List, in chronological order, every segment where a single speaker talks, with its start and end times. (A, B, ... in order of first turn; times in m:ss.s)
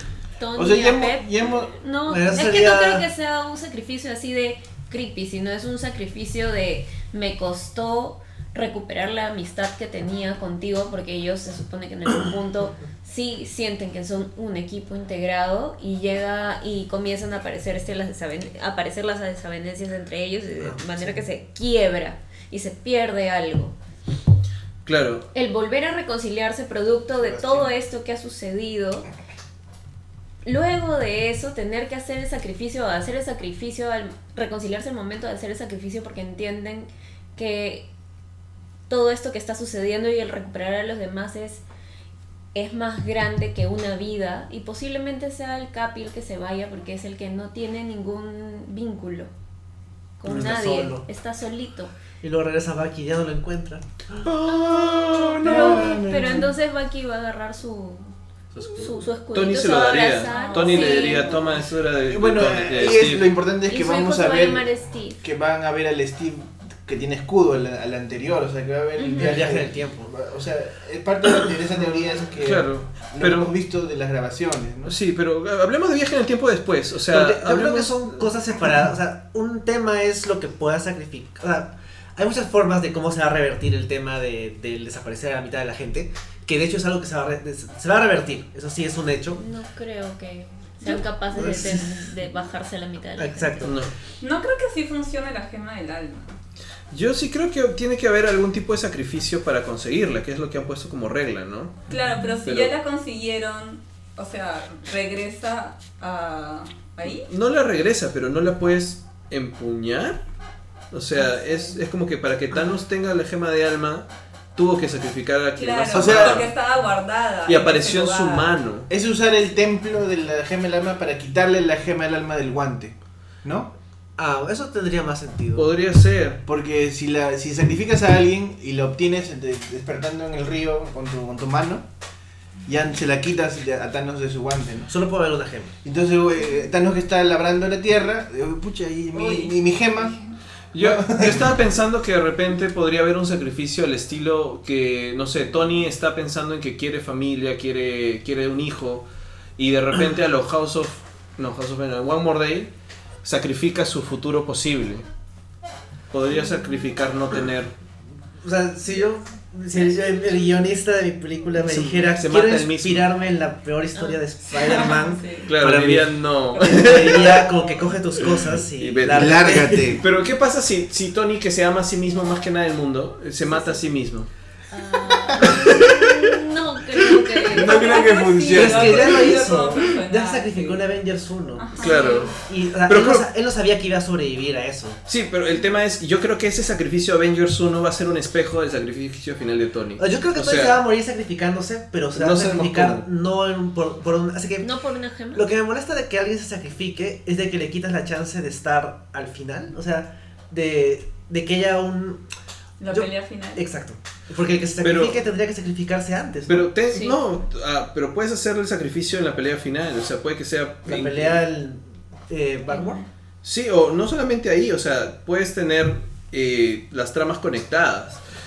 0:00.4-0:23.7 A
0:00.6-0:01.8 B
0:02.1-0:03.1 C
0:20.6-0:21.2 C
0:24.9-0:25.3 D
0:25.3-0:29.1 A
0:30.4-0:37.9 A
0:38.9-0:41.6 A
0:42.6-0:49.3 A
0:50.2-0:51.9 A
0:50.3-0:51.1 C
0:52.2-0:54.3 C
0:54.2-0:56.0 D
0:54.5-0:58.1 A
0:55.4-0:56.5 B
0:58.6-0:59.0 C
0:58.7-1:01.4 A
0:59.3-1:03.3 D
1:00.2-1:01.4 E
1:02.1-1:15.0 B
1:03.6-1:05.2 A
1:09.0-1:09.4 A
1:09.2-1:10.1 C
1:12.4-1:13.5 D
1:14.9-1:18.2 D
1:17.1-1:29.4 C
1:29.4-1:33.7 A
1:31.3-1:32.1 C
1:33.2-1:33.8 C
1:33.6-1:33.9 D
1:34.2-1:36.4 E
1:36.9-1:41.8 D
1:41.9-1:47.3 E
1:42.4-1:42.7 D
1:47.3-1:50.2 D
1:50.9-1:56.5 D
1:51.2-1:51.8 E
1:55.6-1:58.5 E
1:55.9-1:56.5 B
1:57.5-1:58.9 D
1:58.9-2:03.7 B
2:04.2-2:05.7 C
2:05.6-2:06.4 D
2:06.5-2:11.9 B
2:12.7-2:14.9 B
2:14.9-2:15.8 C
2:15.8-2:20.2 B
2:19.1-2:20.3 E
2:20.7-2:29.1 D
2:20.8-2:21.6 B
2:29.6-2:32.7 D
2:33.2-2:35.1 D
2:36.1-2:37.7 D
2:38.4-2:50.0 C
2:41.6-2:43.1 D
2:44.5-2:45.5 E
2:45.5-2:47.5 D
2:46.5-2:47.3 E
2:48.2-2:54.3 D
2:49.1-2:50.0 B
2:54.7-2:58.6 A
2:55.3-2:55.7 B
2:55.4-2:56.2 D
2:57.4-2:59.4 B
2:57.6-3:00.8 E
2:58.5-3:01.7 C
3:01.6-3:02.3 E
3:01.8-3:03.3 D
3:02.4-3:05.0 C
3:05.1-3:10.8 D
3:10.0-3:14.7 C
3:12.2-3:13.0 D
3:14.6-3:15.4 A
3:15.3-3:22.2 C
3:22.8-3:23.6 E
3:22.9-3:26.7 C
3:24.8-3:25.2 D
3:26.5-3:31.4 D
3:26.9-3:27.2 A
3:30.8-3:33.0 C
3:33.4-3:38.2 D